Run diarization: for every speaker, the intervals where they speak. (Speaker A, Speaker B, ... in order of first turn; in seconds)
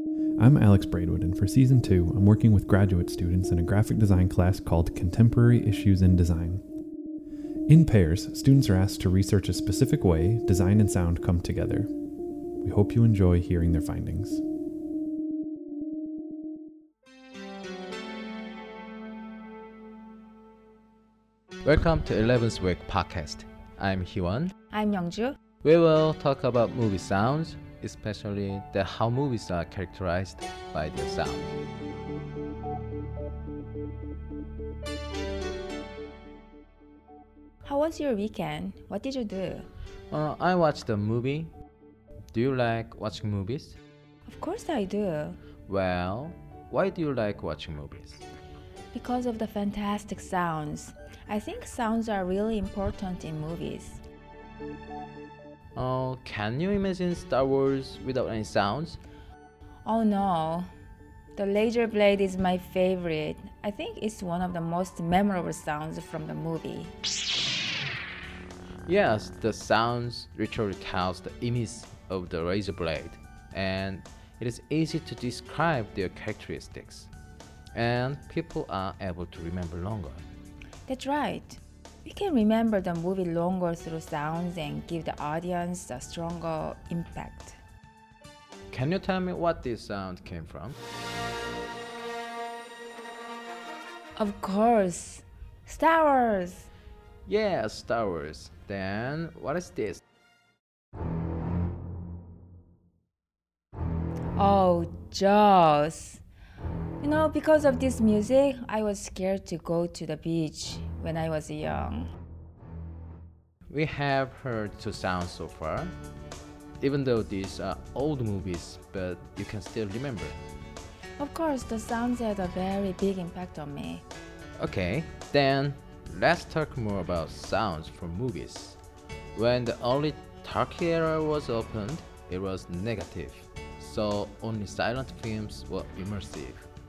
Speaker A: 0.4-6.6, 7.7-11.9, 12.6-14.4
Speaker B: 21.6-24.5, 25.6-31.6, 40.1-41.5, 42.3-43.8, 45.6-48.2, 55.7-59.0, 68.8-77.1, 77.7-80.2, 88.7-90.8, 97.2-100.0, 113.7-116.0, 116.8-120.4, 124.6-128.8, 129.3-136.7
Speaker C: 24.7-25.4, 37.6-39.7, 44.2-45.4, 48.9-54.0, 59.8-60.7, 61.3-66.9, 80.8-87.6, 94.2-96.7, 104.3-106.2, 107.0-112.1, 121.2-124.0